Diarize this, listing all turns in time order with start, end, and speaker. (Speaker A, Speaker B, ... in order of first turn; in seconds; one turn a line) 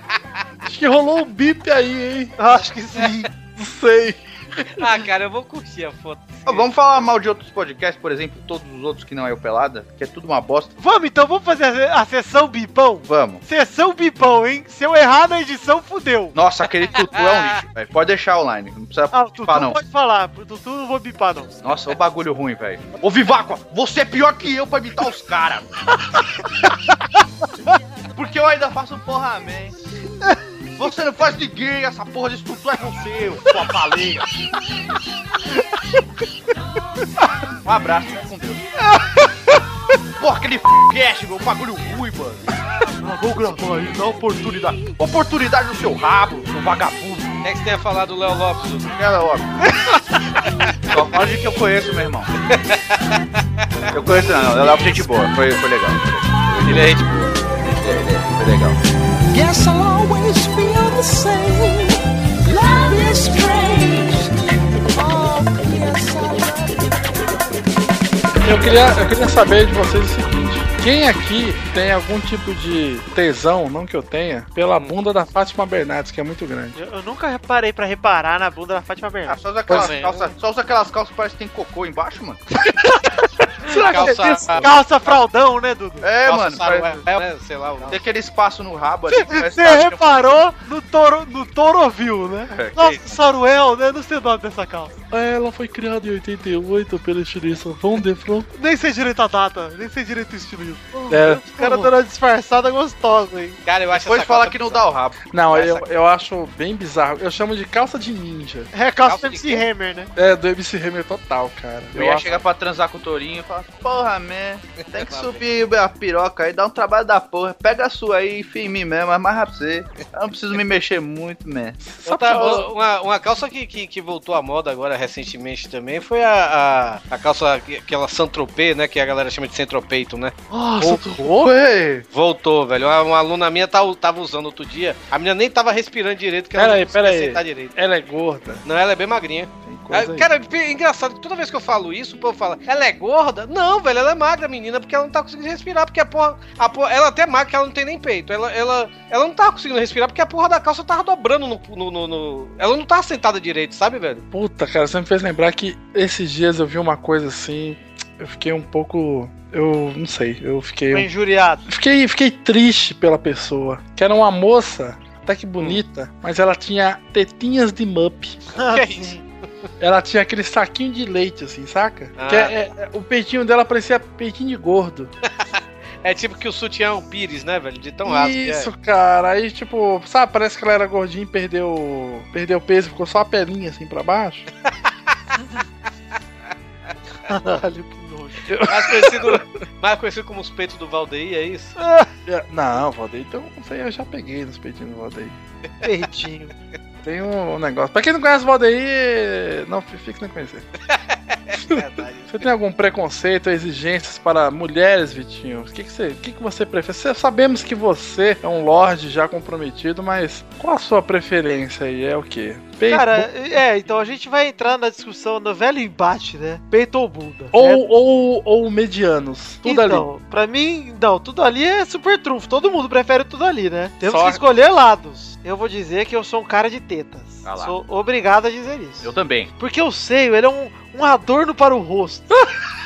Speaker A: 0.7-2.4
Speaker B: 2.4-3.3
Speaker A: 3.6-4.7
Speaker C: 4.8-6.7
Speaker D: 6.5-10.7
Speaker B: 10.8-16.4
Speaker D: 13.1-13.4
Speaker D: 16.4-19.8
Speaker C: 17.1-17.6
Speaker B: 19.1-21.6
Speaker D: 21.6-25.7
Speaker D: 28.1-29.8
Speaker D: 30.8-34.3
Speaker D: 37.6-38.6
Speaker B: 38.8-39.6
Speaker D: 40.2-42.5
Speaker D: 43.0-47.4
Speaker C: 47.4-48.9
Speaker D: 49.0-49.5
Speaker D: 50.9-52.3
Speaker D: 53.9-57.0
Speaker C: 56.6-57.3
Speaker D: 57.7-58.8
Speaker E: 59.3-67.5
Speaker A: 68.4-76.8
Speaker B: 76.8-79.4
Speaker D: 79.3-82.4
Speaker C: 79.7-80.3
Speaker A: 83.7-84.8
Speaker B: 83.7-86.1
Speaker C: 83.8-84.7
Speaker D: 86.0-87.0
Speaker C: 86.2-88.0
Speaker D: 87.9-90.4
Speaker B: 89.2-95.0
Speaker D: 92.5-93.2
Speaker A: 95.1-98.5
Speaker B: 98.5-103.6
Speaker D: 101.0-101.9
Speaker A: 101.1-101.5
Speaker C: 103.7-104.8
Speaker D: 103.9-105.6
Speaker A: 105.3-108.7
Speaker C: 105.5-105.8
Speaker B: 108.7-110.1
Speaker C: 109.0-109.6
Speaker A: 110.2-112.4
Speaker D: 111.9-121.8
Speaker C: 115.0-115.4
Speaker A: 121.8-122.7
Speaker C: 122.1-130.3
Speaker D: 130.5-132.1
Speaker A: 130.8-131.5
Speaker C: 132.1-137.8
Speaker A: 136.6-138.6
Speaker C: 138.7-154.2
Speaker A: 139.7-140.3
Speaker A: 154.3-161.1
Speaker B: 160.9-161.6
Speaker A: 161.7-168.4
Speaker B: 168.5-169.2
Speaker C: 168.6-169.2
Speaker A: 169.8-175.1
Speaker C: 172.2-172.5
Speaker C: 175.4-178.7
Speaker A: 178.1-184.5
Speaker B: 187.3-188.5
Speaker A: 188.5-189.4
Speaker C: 188.7-191.8
Speaker B: 191.8-192.1
Speaker A: 192.3-195.4
Speaker B: 195.8-196.5
Speaker A: 197.0-200.7
Speaker C: 200.9-202.4
Speaker A: 201.7-213.3
Speaker B: 212.9-217.8
Speaker A: 217.5-220.1
Speaker B: 219.6-232.3
Speaker A: 224.1-224.4
Speaker D: 227.4-227.8
Speaker D: 229.0-229.5